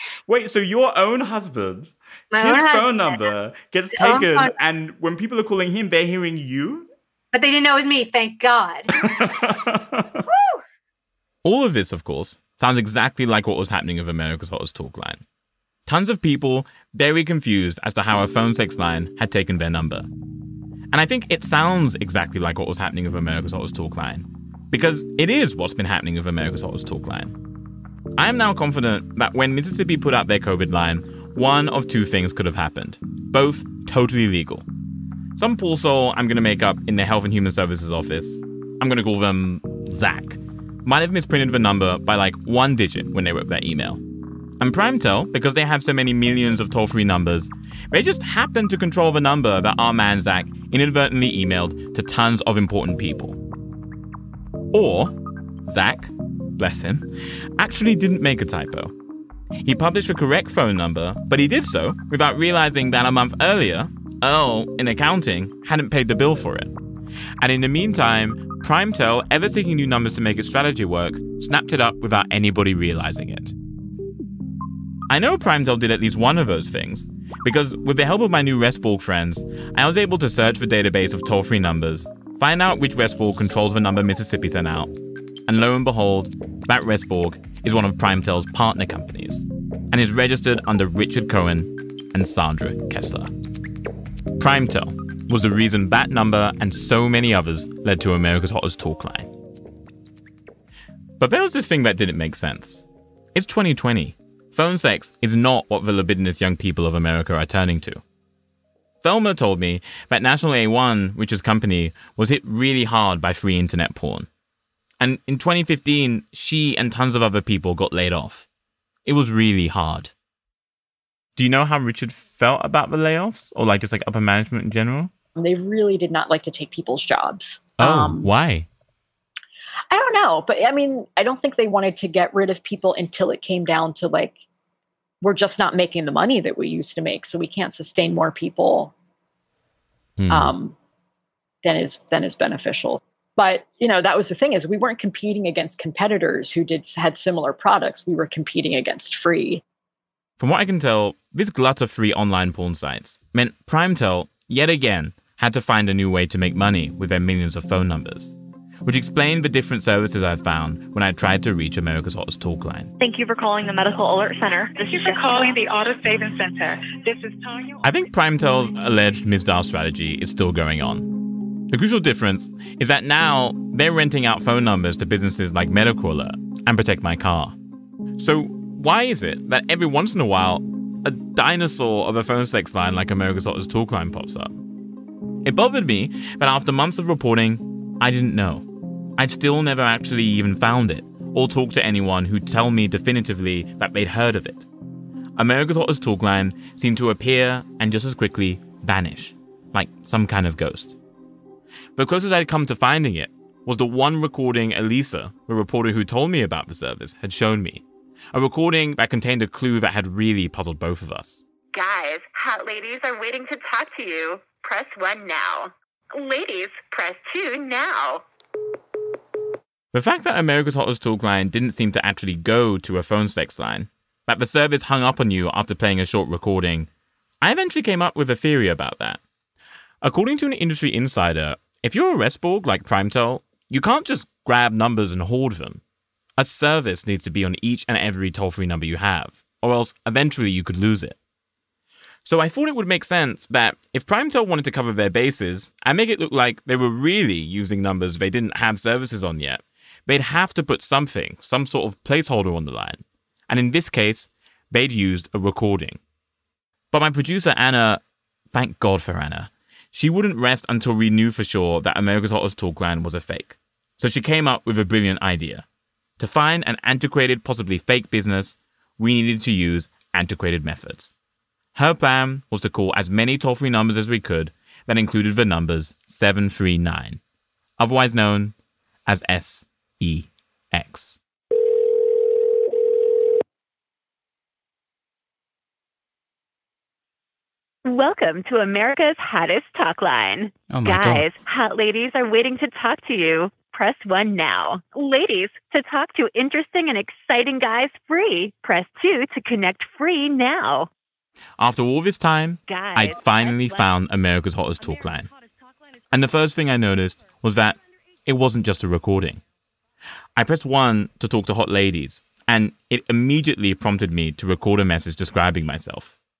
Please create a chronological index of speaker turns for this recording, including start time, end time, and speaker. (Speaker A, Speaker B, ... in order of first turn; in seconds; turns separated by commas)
Speaker A: 0.3-6.8, Speaker B: 2.3-3.3, Speaker B: 3.9-4.5, Speaker B: 7.3-8.9, Speaker A: 9.2-9.7, Speaker B: 10.3-10.6, Speaker A: 11.4-15.2, Speaker A: 15.8-20.1, Speaker A: 20.9-27.3, Speaker A: 28.2-34.6, Speaker A: 35.4-44.0, Speaker A: 44.6-53.4, Speaker A: 54.7-55.1, Speaker A: 55.7-58.9, Speaker A: 59.6-66.7, Speaker A: 67.4-73.5, Speaker A: 75.1-84.9, Speaker A: 85.5-93.3, Speaker A: 94.4-99.3, Speaker A: 101.2-102.8, Speaker A: 103.3-108.0, Speaker A: 109.0-114.3, Speaker A: 115.0-118.5, Speaker A: 119.0-120.1, Speaker A: 121.3-125.1, Speaker C: 125.3-128.3, Speaker A: 127.8-128.7, Speaker C: 129.9-134.4, Speaker C: 135.2-138.9, Speaker A: 140.2-140.5, Speaker C: 140.3-140.7, Speaker C: 141.6-149.6, Speaker A: 150.4-158.3, Speaker A: 158.8-162.9, Speaker D: 163.0-165.6, Speaker E: 164.7-167.8, Speaker A: 167.8-177.6, Speaker A: 178.2-184.6, Speaker A: 185.4-188.7, Speaker A: 189.2-194.7, Speaker A: 195.4-201.0, Speaker A: 201.9-211.4, Speaker F: 211.7-218.2, Speaker A: 219.9-226.9, Speaker A: 227.4-229.2, Speaker A: 230.0-235.8, Speaker A: 236.4-241.2, Speaker A: 242.2-256.0, Speaker A: 256.9-265.6, Speaker A: 266.2-271.1, Speaker A: 271.7-277.2, Speaker A: 277.8-278.5, Speaker A: 279.1-281.2, Speaker G: 287.8-300.9, Speaker A: 301.6-305.3, Speaker G: 302.7-303.9, Speaker A: 306.1-309.4, Speaker A: 310.4-316.1